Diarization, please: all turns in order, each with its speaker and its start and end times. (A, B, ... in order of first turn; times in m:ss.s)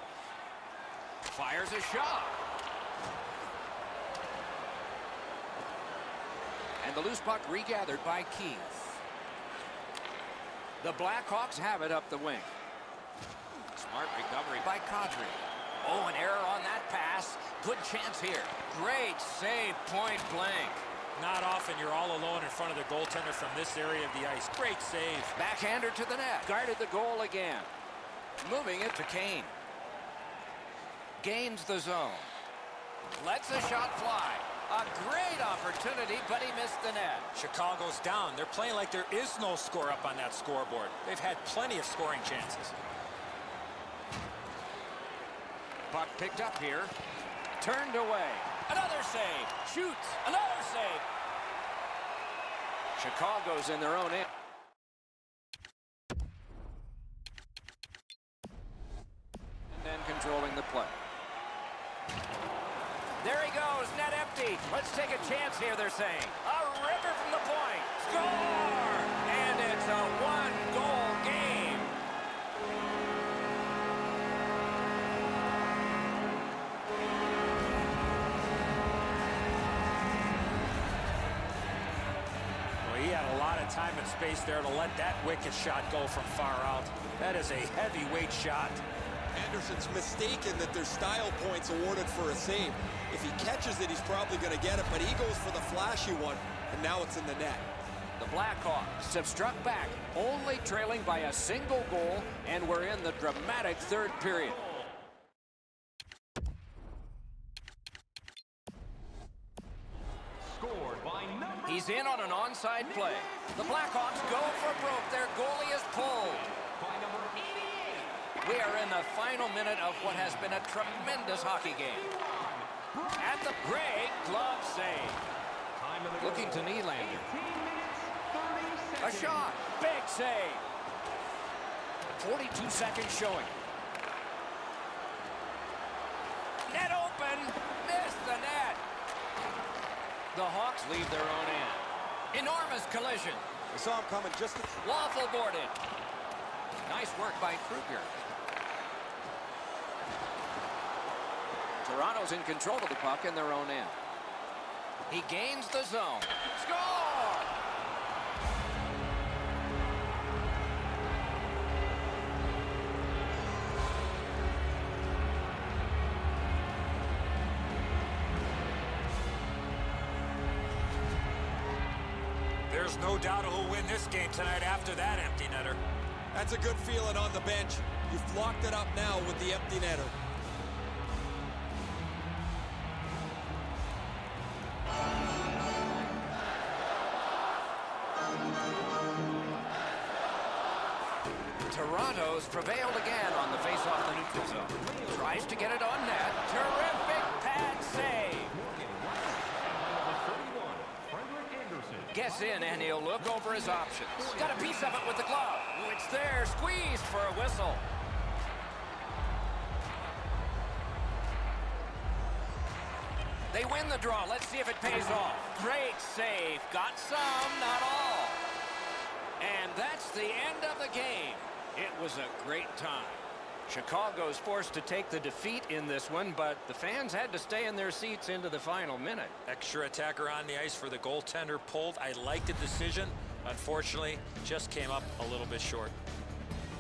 0:01.3-0:02.4 A
0:06.8-0:09.0 A
0:10.8-0:12.5 A
0:13.7-0:20.8 A
0:21.2-0:25.3 B
0:25.4-0:27.7 A
0:28.4-0:29.6 A
0:31.2-0:32.4 A
0:33.2-0:37.3 A
0:37.3-0:42.8 B
0:45.9-0:46.9 A
0:47.6-0:51.0 A
0:53.0-0:54.3 A
0:59.7-1:01.0 A
1:03.2-1:12.0 A
1:22.8-1:28.8 B
1:29.3-1:37.6 C
1:38.2-1:44.6 A
1:50.4-1:52.2 D
1:51.7-1:56.5 A
1:52.8-1:55.0 D
1:56.6-1:58.3 D
1:58.4-2:02.1 A
2:01.2-2:03.6 D
2:03.2-2:05.2 A
2:05.8-2:09.6 D
2:06.2-2:07.3 A
2:09.0-2:10.6 A
2:12.1-2:13.5 A
2:16.7-2:18.8 A
2:20.3-2:23.4 A
2:23.7-2:24.8 C
2:24.8-2:25.8 A
2:26.9-2:28.2 A
2:31.8-2:33.9 A
2:35.1-2:37.5 A
2:52.7-2:55.8 B
2:56.3-3:00.1 C
3:11.7-3:18.6 A
3:14.7-3:16.1 D
3:16.6-3:25.2 D
3:22.1-3:27.8 A
3:33.5-3:38.4 A
3:39.4-3:49.4 A
3:49.4-3:55.9 B